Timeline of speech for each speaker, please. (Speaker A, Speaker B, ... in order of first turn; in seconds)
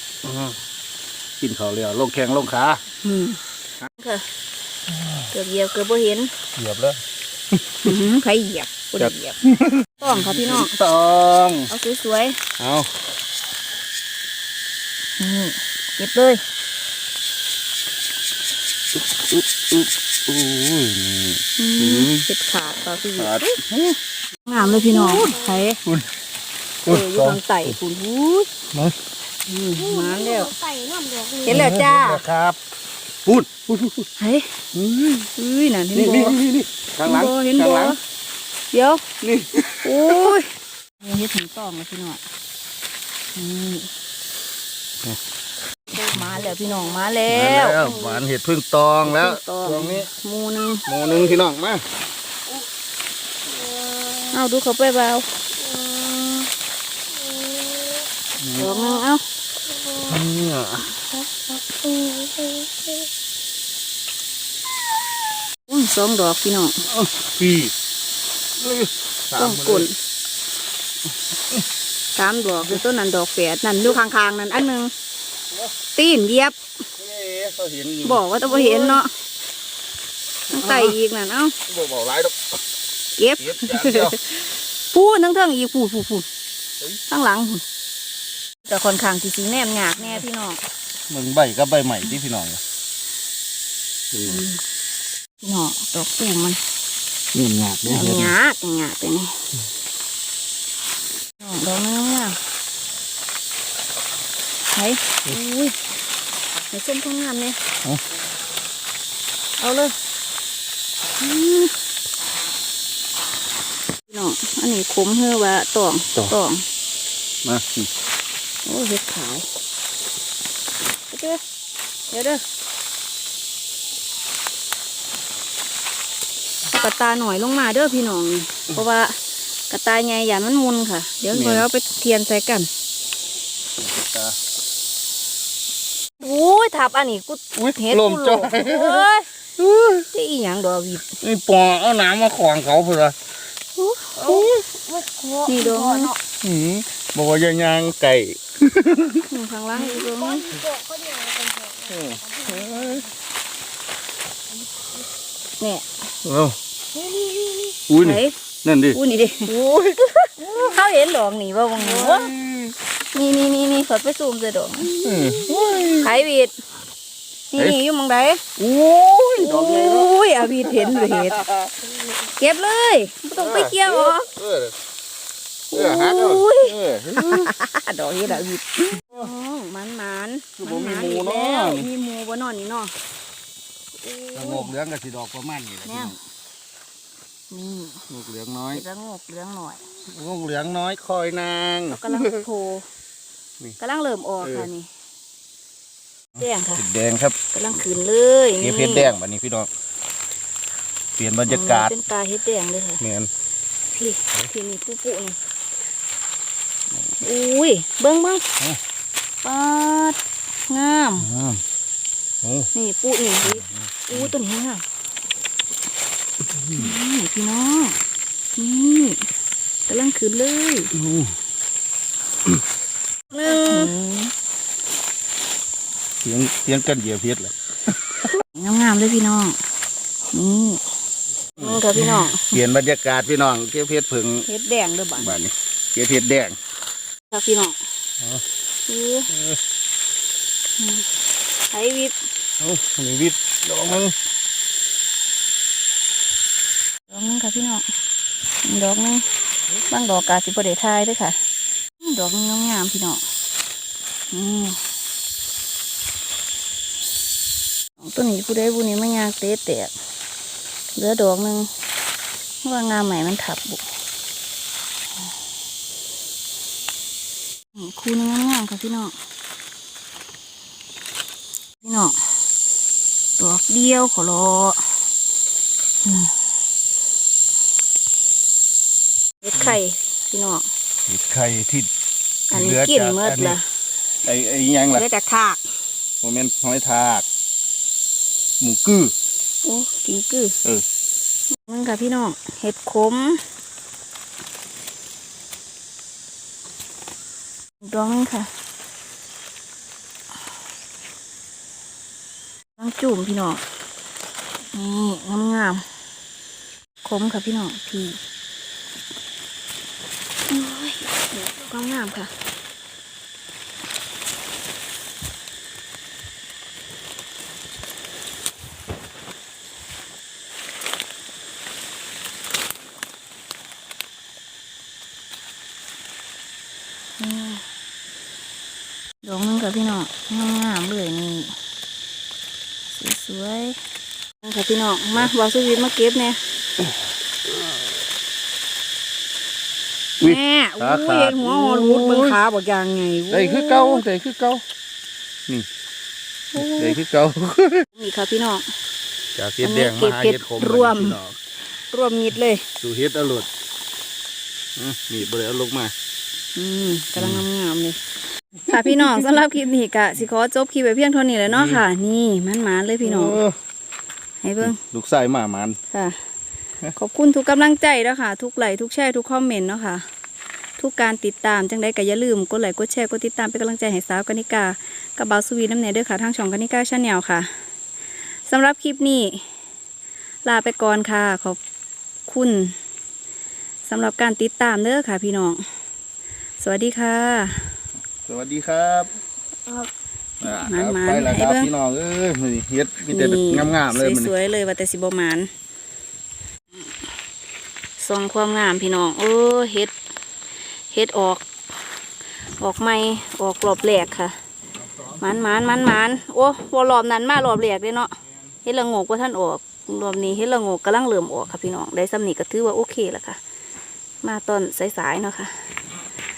Speaker A: 0.2-0.6, 1.4-2.8, 4.9-5.3, 6.6-7.0, 7.5-7.9, 9.0-11.7, 12.6-12.9, 18.9-22.3, 23.2-24.0, 26.9-27.8, 31.5-32.6, 33.2-34.1, 34.7-35.3, 36.0-38.0, 39.2-40.4, 47.3-50.1, 50.9-51.8, 58.4-58.7, 60.1-60.9, 66.9-67.7, 68.6-69.9, 77.0-79.0, 80.5-81.0, 81.7-82.6, 83.4-84.2, 91.1-92.6, 94.1-94.4, 97.3-98.3, 117.4-117.9, 131.3-131.7, 133.8-134.4, 137.6-140.1, 141.2-143.2, 144.3-144.6, 146.4-149.3, 151.9-153.1, 156.2-156.6, 157.9-160.8, 161.8-162.8, 164.9-166.2, 168.6-171.7, 173.3-174.8, 175.7-177.5, 179.0-179.3, 180.6-181.9, 184.3-186.2, 188.1-188.8, 190.1-192.5, 194.4-194.7, 196.4-197.4, 198.6-199.7, 201.2-201.9, 203.0-203.3, 211.2-211.6, 212.4-212.7, 213.4-214.3, 216.4-217.0, 220.9-221.4, 226.2-228.3, 231.6-234.5, 235.2-236.6, 239.3-239.6, 242.6-244.2, 279.5-279.8, 281.1-281.9, 282.5-283.6, 284.2-285.1, 286.2-287.3, 288.6-289.1, 337.5-337.8, 340.2-342.4, 343.3-344.6, 346.6-347.9, 349.4-351.4, 352.8-353.5, 354.8-355.9, 357.2-357.4, 358.7-359.3, 361.5-361.8, 363.0-363.6, 364.6-365.8, 388.2-389.1, 390.4-394.3
Speaker B: 3.0-3.4, 3.9-4.2, 5.3-6.3, 7.8-9.4, 10.0-10.8, 11.7-12.4, 15.2-16.4, 21.6-23.6, 24.5-25.8, 26.9-28.5, 29.5-30.5, 31.5-32.2, 34.2-34.5, 35.4-36.4, 37.1-38.0, 38.7-39.0, 39.8-40.5, 41.0-42.2, 43.4-43.9, 45.9-47.8, 49.0-50.9, 54.3-55.3, 58.6-59.2, 65.7-66.8, 69.4-70.0, 72.2-74.9, 76.0-76.6, 78.0-79.1, 80.5-81.6, 83.2-86.3, 87.1-87.6, 88.7-90.6, 94.2-94.6, 95.4-96.6, 97.9-99.4, 101.4-102.4, 104.7-105.8, 106.7-107.6, 109.6-109.9, 111.2-111.7, 114.1-116.7, 118.7-119.5, 121.1-121.4, 122.1-122.4, 126.7-129.2, 129.7-132.7, 136.2-139.3, 140.1-141.2, 143.8-144.4, 145.5-146.1, 149.3-150.5, 155.6-155.9, 158.0-158.3, 158.9-159.5, 160.6-162.3, 163.1-165.3, 166.0-166.5, 167.5-168.4, 169.4-171.4, 172.4-174.3, 175.7-182.9, 184.0-184.7, 185.8-186.2, 187.5-188.0, 188.7-189.8, 191.9-192.9, 193.8-194.9, 196.4-196.8, 197.5-199.1, 201.5-203.0, 204.0-205.4, 207.2-208.4, 209.4-210.2, 210.7-211.3, 212.7-214.8, 216.8-218.0, 218.6-219.3, 219.9-220.9, 223.3-224.3, 228.5-229.6, 230.3-230.8, 231.6-232.5, 234.5-235.4, 237.3-237.8, 238.9-239.3, 240.8-241.1, 241.7-242.1, 247.1-247.8, 248.7-249.2, 249.9-251.4, 252.0-253.2, 254.3-254.8, 258.0-259.9, 261.0-261.7, 262.6-263.8, 267.8-269.1, 271.8-272.2, 273.4-274.9, 276.1-276.3, 279.4-280.7, 282.5-283.6, 284.9-285.6, 289.6-290.6, 291.6-293.4, 297.8-298.5, 302.8-303.6, 304.7-305.9, 307.0-308.2, 310.5-312.3, 327.2-327.6, 329.2-331.6, 332.9-333.8, 334.4-336.4, 340.2-344.0, 346.5-347.0, 347.9-348.6, 349.6-351.2, 351.9-352.6, 356.6-358.0, 358.6-363.4, 364.4-364.8, 365.9-366.2, 366.9-370.1, 370.8-377.5, 378.4-379.5, 380.4-381.6, 382.3-382.8, 383.9-385.6, 386.6-387.8, 390.6-391.7, 393.1-395.5, 398.0-399.9, 400.9-401.5, 402.6-404.4, 405.2-408.1, 408.6-413.4, 414.2-415.6
Speaker C: 24.5-25.6, 29.8-31.7, 46.3-47.2, 53.5-54.3, 55.6-56.5, 57.1-58.0, 58.6-59.0, 59.6-60.2, 61.1-63.0, 144.2-146.2, 149.8-153.1, 154.5-154.9, 156.9-157.8